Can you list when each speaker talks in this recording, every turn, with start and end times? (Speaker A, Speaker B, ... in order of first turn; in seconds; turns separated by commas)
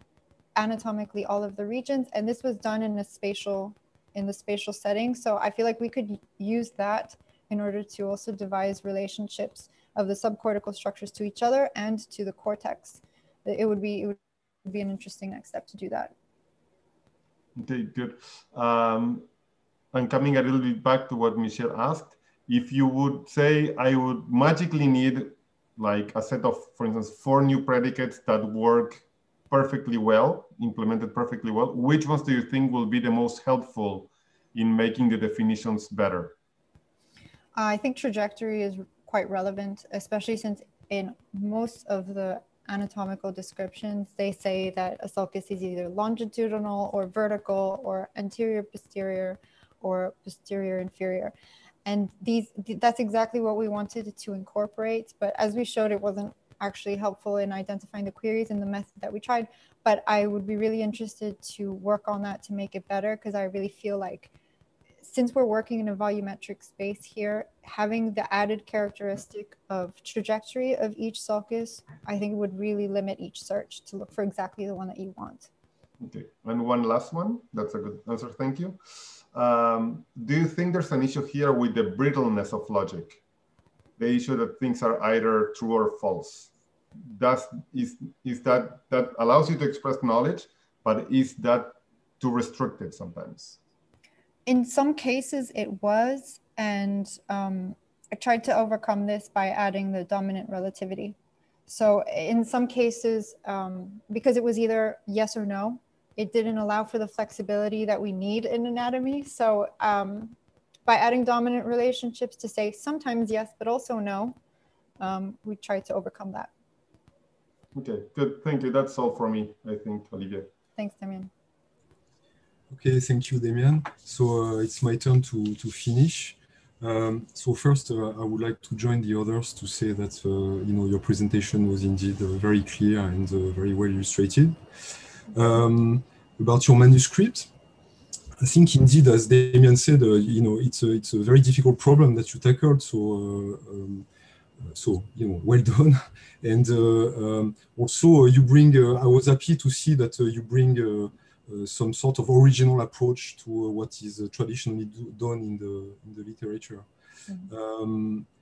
Speaker A: 0.5-16.1, Speaker B: 17.6-19.3, Speaker B: 19.9-36.3, Speaker A: 37.5-51.3, Speaker A: 51.8-64.3, Speaker A: 65.0-75.5, Speaker B: 76.0-78.8, Speaker B: 79.3-83.2, Speaker B: 84.0-86.5, Speaker B: 87.0-93.6, Speaker A: 94.5-101.2, Speaker A: 101.7-114.4, Speaker A: 115.0-116.5, Speaker B: 117.7-120.5, Speaker A: 120.8-121.3, Speaker C: 122.7-134.6, Speaker C: 135.3-137.5, Speaker C: 138.4-144.1, Speaker C: 144.6-156.9, Speaker C: 157.5-158.2